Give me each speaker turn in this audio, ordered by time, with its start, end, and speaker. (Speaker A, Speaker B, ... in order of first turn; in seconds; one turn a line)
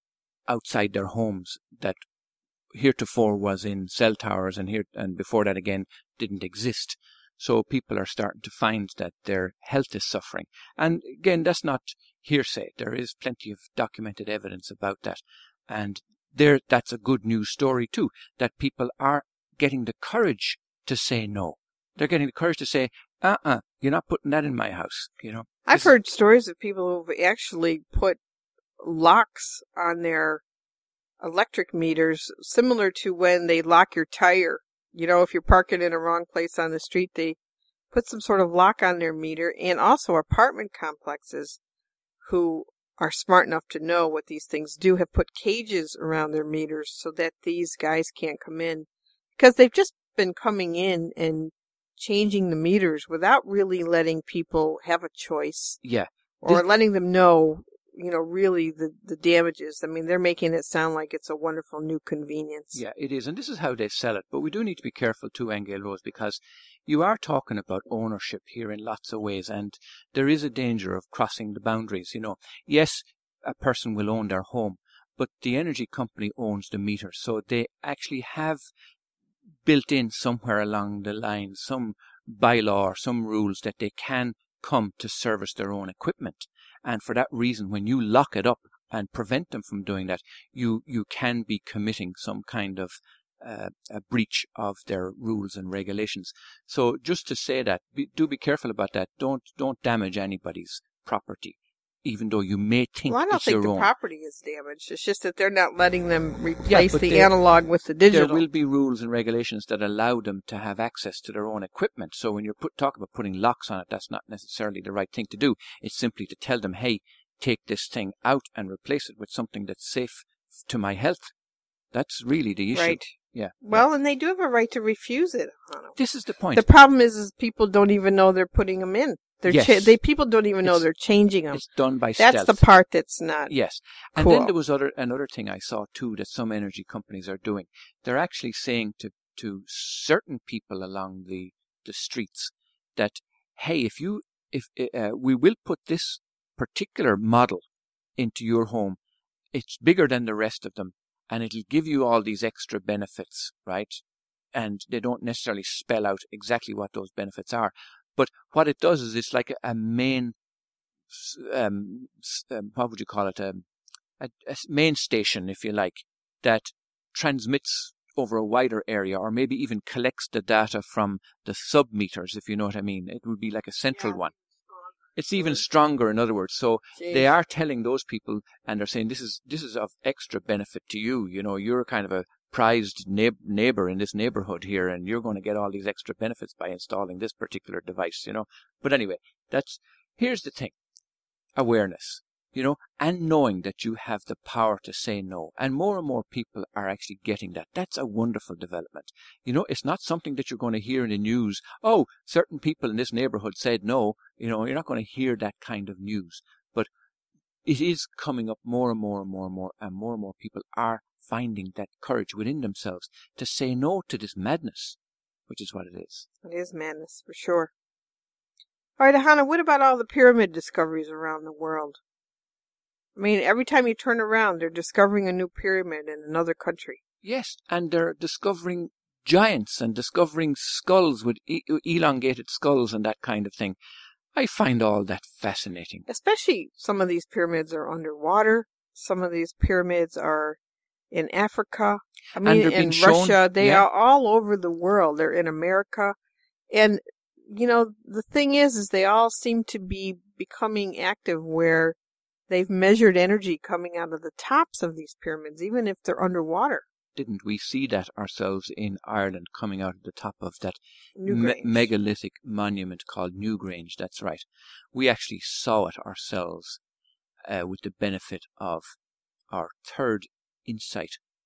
Speaker A: 0.5-2.0
Speaker A: 2.7-25.9
Speaker B: 25.7-28.2
Speaker B: 28.8-30.4
Speaker B: 31.2-37.4
Speaker B: 37.9-41.6
Speaker B: 42.2-55.8
Speaker A: 55.8-56.6
Speaker B: 56.4-62.8
Speaker A: 62.7-78.6
Speaker A: 79.6-103.9
Speaker B: 103.1-108.4
Speaker A: 106.6-107.3
Speaker A: 108.1-121.3
Speaker A: 121.9-123.8
Speaker B: 122.7-126.0
Speaker A: 125.9-126.7
Speaker B: 126.5-131.6
Speaker A: 129.5-129.9
Speaker A: 131.5-132.6
Speaker B: 132.2-133.5
Speaker A: 133.5-147.6
Speaker B: 134.2-134.5
Speaker A: 148.2-149.0
Speaker A: 149.5-154.0
Speaker A: 154.5-160.3
Speaker A: 161.1-163.6
Speaker A: 164.2-174.3
Speaker A: 175.2-190.7
Speaker B: 176.9-177.3
Speaker A: 191.6-206.9
Speaker A: 207.6-215.0
Speaker A: 215.5-216.3
Speaker B: 216.4-217.7
Speaker B: 219.0-222.0
Speaker B: 223.2-227.0
Speaker A: 227.2-233.8
Speaker A: 234.3-236.1
Speaker B: 236.1-240.6
Speaker B: 241.1-246.2
Speaker A: 242.4-243.8
Speaker B: 246.7-252.0
Speaker B: 252.5-256.8
Speaker A: 257.1-266.8
Speaker B: 261.2-261.9
Speaker A: 267.4-268.9
Speaker A: 269.5-271.2